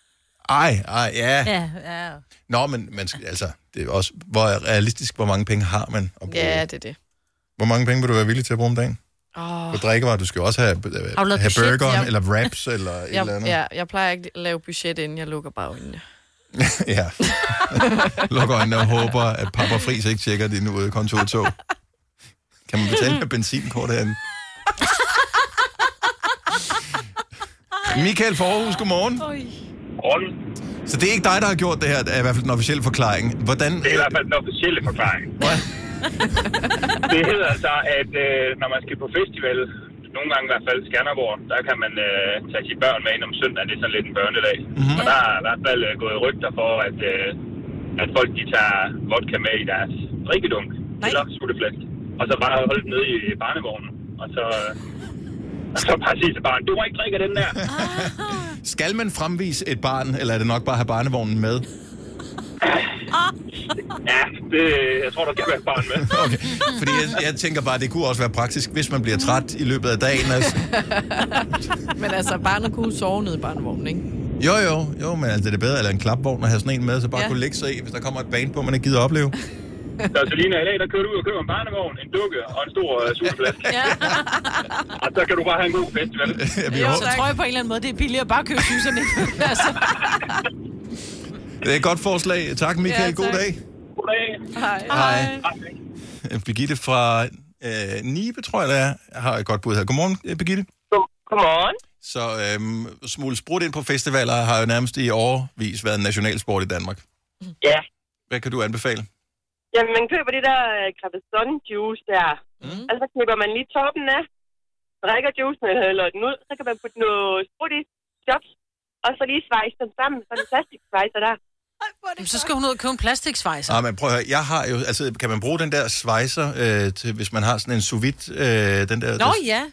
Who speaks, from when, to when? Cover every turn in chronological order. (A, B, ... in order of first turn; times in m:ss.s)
0:00.5-0:01.6 A
0:01.4-0:02.2 B
0:02.5-0:06.7 A
0:06.3-0:07.0 C
0:07.6-0:09.0 A
0:09.4-0:09.8 C
0:09.7-0:13.6 A
0:11.2-0:12.1 B
0:13.1-0:16.0 C
0:16.6-0:21.6 A
0:22.7-0:24.2 A
0:27.8-0:29.3 A
0:30.0-0:30.3 D
0:30.9-0:34.2 A
0:33.8-0:35.5 D
0:36.9-0:47.4 D
0:44.8-0:45.1 A
0:48.0-0:54.8 D
0:55.7-0:57.7 D
0:57.6-1:01.7 A
1:02.6-1:02.9 D
1:04.0-1:06.1 D
1:05.9-1:10.7 A
1:10.4-1:14.1 C
1:14.4-1:19.4 A
1:20.1-1:23.9 D
1:23.3-1:24.2 A
1:23.7-1:24.8 C
1:25.0-1:26.5 D
1:26.3-1:27.3 A
1:26.7-1:27.3 C
1:26.7-1:30.0 E
1:29.4-1:30.3 C
1:31.6-1:33.6 A
1:32.8-1:33.4 C
1:34.0-1:34.5 D
1:34.5-1:35.5 C
1:34.9-1:35.4 A
1:36.2-1:40.7 A
1:40.9-1:41.8 F
1:42.0-1:47.0 A
1:48.3-1:49.1 A
1:49.7-1:54.3 F
1:55.0-1:58.4 F
1:59.0-2:01.4 F
2:01.9-2:02.5 B
2:02.2-2:03.8 E
2:03.7-2:09.4 A
2:09.2-2:09.6 E